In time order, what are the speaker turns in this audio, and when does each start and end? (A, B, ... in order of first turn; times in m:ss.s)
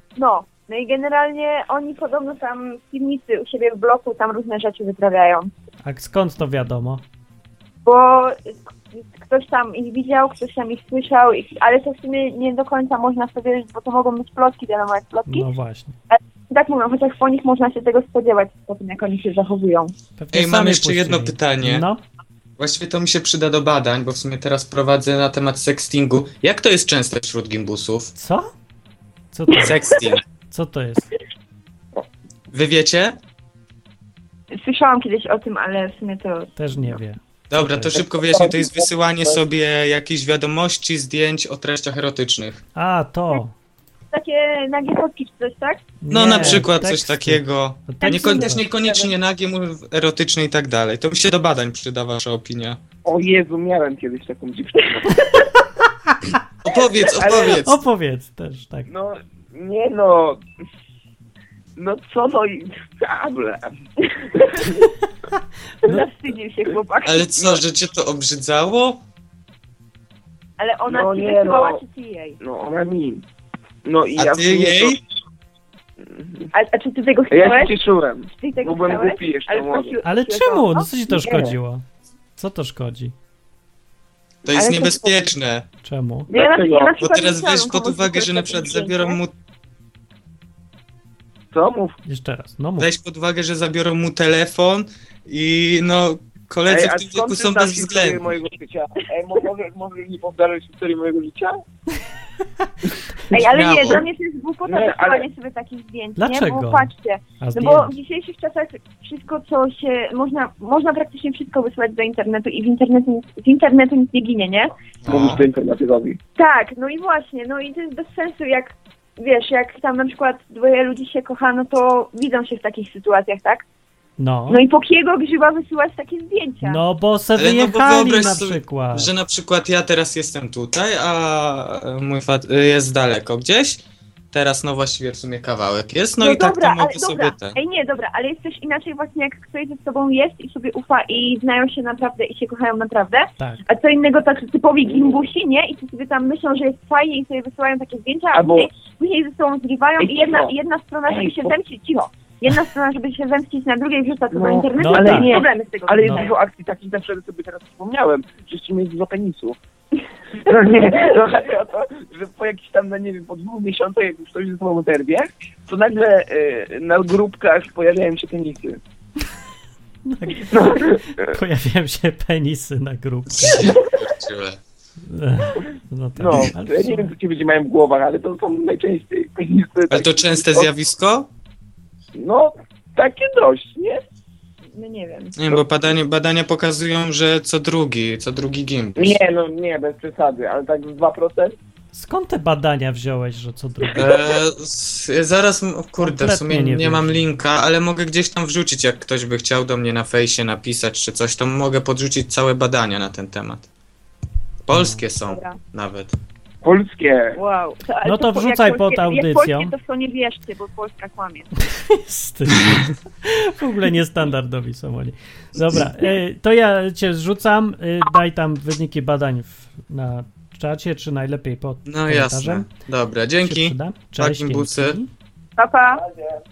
0:00.2-0:05.5 A
0:05.8-0:07.0 B
0:07.8-0:15.5 A
0:15.3-0:16.0 B
0:16.1-0:19.9 A
0:20.2-0:22.0 B
0:20.3-0:21.9 C
0:22.6-0:28.1 C
0:28.2-0:28.5 B
0:29.3-0:29.8 B
0:29.6-0:30.2 C
0:30.5-0:31.1 B
0:32.5-0:33.2 C
0:34.5-0:36.5 A
0:36.6-0:38.0 B
0:37.5-0:42.6 C
0:38.0-0:39.4 D
0:42.8-0:43.5 B
0:44.1-0:45.8 A
0:46.0-0:48.6 B
0:46.1-0:52.8 C
0:48.0-0:48.4 A
0:48.6-0:49.1 D
0:53.0-0:55.3 D
0:56.6-0:57.8 C
0:57.1-0:57.6 D
0:57.6-0:58.9 B
0:58.9-1:00.4 D
1:01.8-1:03.7 D
1:04.1-1:04.5 A
1:04.3-1:04.7 D
1:05.8-1:07.5 A
1:07.0-1:09.0 C
1:10.6-1:12.4 A
1:10.9-1:11.8 D
1:12.4-1:13.2 D
1:13.8-1:15.0 D
1:14.2-1:15.0 C
1:16.0-1:16.5 D
1:16.5-1:17.8 A
1:17.3-1:19.9 D
1:18.3-1:20.9 A
1:20.0-1:21.8 B
1:21.1-1:21.5 D
1:22.4-1:23.2 B
1:24.4-1:25.7 C
1:24.5-1:25.2 A
1:25.8-1:26.3 B
1:26.3-1:29.2 A
1:26.3-1:26.9 D
1:27.0-1:29.3 C
1:31.5-1:32.0 D
1:32.1-1:32.9 B
1:32.8-1:38.2 C
1:36.7-1:41.6 D
1:43.3-1:54.7 A
1:43.3-1:44.0 D
1:43.5-1:44.0 C
1:44.7-1:45.3 D
1:46.2-1:47.9 B
1:55.1-1:56.2 D
1:55.1-1:55.4 C
1:56.4-2:03.6 A
2:04.2-2:04.6 B
2:04.5-2:06.8 A
2:06.6-2:09.1 B
2:07.4-2:13.8 C
2:14.3-2:17.6 C
2:16.2-2:36.3 A
2:28.3-2:28.7 D
2:30.0-2:30.5 D
2:31.1-2:31.5 D
2:34.3-2:39.6 D
2:34.8-2:35.4 B
2:40.4-2:48.8 D
2:50.1-2:53.7 B
2:50.5-2:51.4 D
2:53.3-2:54.6 C
2:55.1-2:57.1 B
2:56.2-3:00.7 D
2:59.9-3:01.3 C
3:02.2-3:04.0 D
3:04.7-3:05.4 A
3:05.4-3:09.2 C
3:09.0-3:11.6 D
3:11.9-3:14.1 B
3:13.9-3:23.7 C
3:16.0-3:17.2 B
3:24.7-3:26.2 C
3:24.7-3:25.0 B
3:25.3-3:25.6 A
3:26.6-3:27.4 D
3:27.4-3:31.5 A
3:28.0-3:29.7 B
3:31.7-3:42.7 B
3:41.9-3:45.0 C
3:43.4-3:45.1 B
3:45.6-3:46.0 A